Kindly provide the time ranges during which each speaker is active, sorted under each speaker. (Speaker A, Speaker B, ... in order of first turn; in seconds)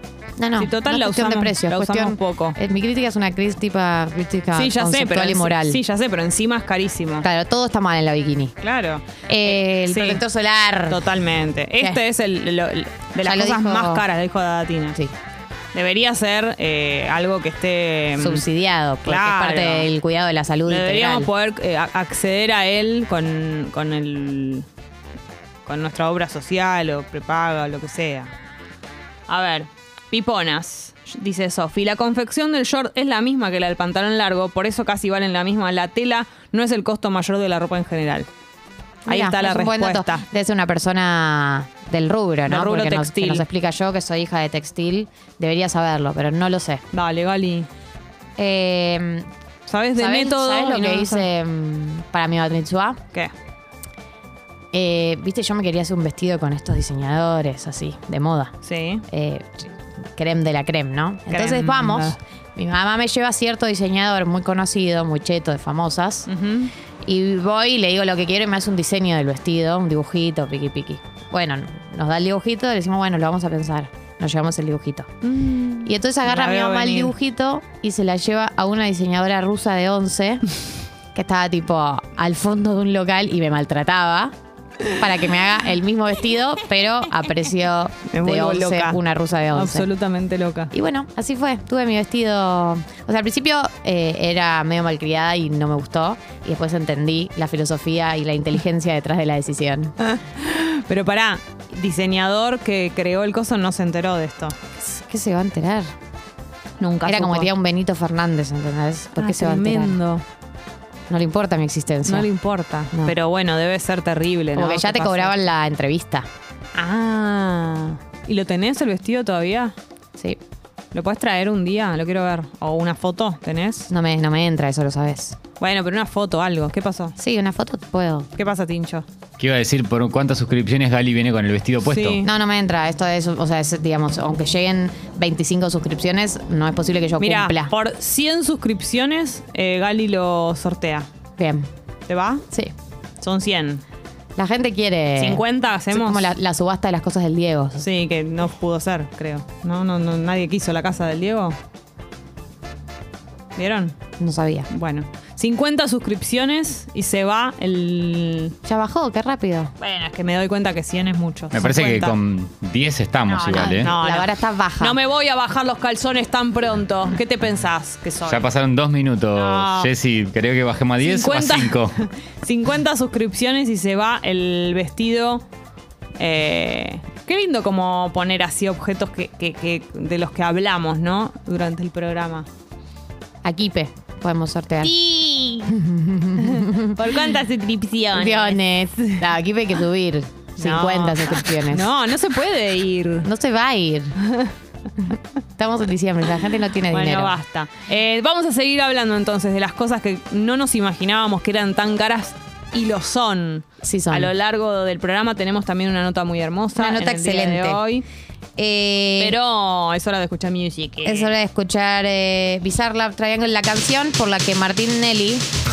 Speaker A: 0.4-5.8, 7.2-8.5, 9.3-11.1, 13.2-14.1, 18.2-21.3, 39.1-46.8, 48.4-49.3, 50.0-53.0, 54.7-58.5, 59.1-66.3, 67.0-75.1, 75.8-80.5, 81.1-84.3, 85.0-89.9, 90.7-99.9, 104.8-105.9, 107.1-110.0, 111.1-112.3, 114.6-116.3, 123.9-125.4, 127.2-128.3, 132.2-137.7, 141.4-141.7, 144.4-147.8, 154.2-154.7, 158.7-159.7, 163.3-165.0, 183.4-184.9, 185.7-187.0, 188.1-191.9, 193.2-194.2, 195.0-197.4, 203.8-204.3, 206.8-207.8, 208.6-209.4, 211.0-215.5
Speaker B: 0.6-2.6, 4.5-7.3, 8.6-10.2, 10.9-15.0, 15.7-18.4, 19.1-19.9, 20.7-24.7, 25.7-28.3, 29.3-38.3, 39.1-40.2, 42.5-43.5, 46.9-47.7, 49.7-51.3, 58.6-59.1, 61.3-62.2, 66.3-66.7, 75.2-77.1, 88.1-89.0, 89.5-90.7, 100.0-104.5, 106.8-107.5, 109.2-110.2, 112.1-115.3, 116.8-119.8, 120.9-123.9, 125.6-127.2, 128.4-129.1, 131.9-132.3, 137.2-141.1, 142.1-142.4, 143.2-143.8, 145.2-146.3, 147.8-151.6, 153.6-154.0, 154.7-158.6, 159.8-162.2, 163.3-168.5, 169.3-169.9, 171.0-175.4, 176.2-182.5, 184.8-185.8, 186.4-189.3, 190.6-193.3, 194.3-194.5, 196.9-208.1, 209.2-211.3
Speaker C: 129.4-132.2, 161.5-163.9, 168.3-172.0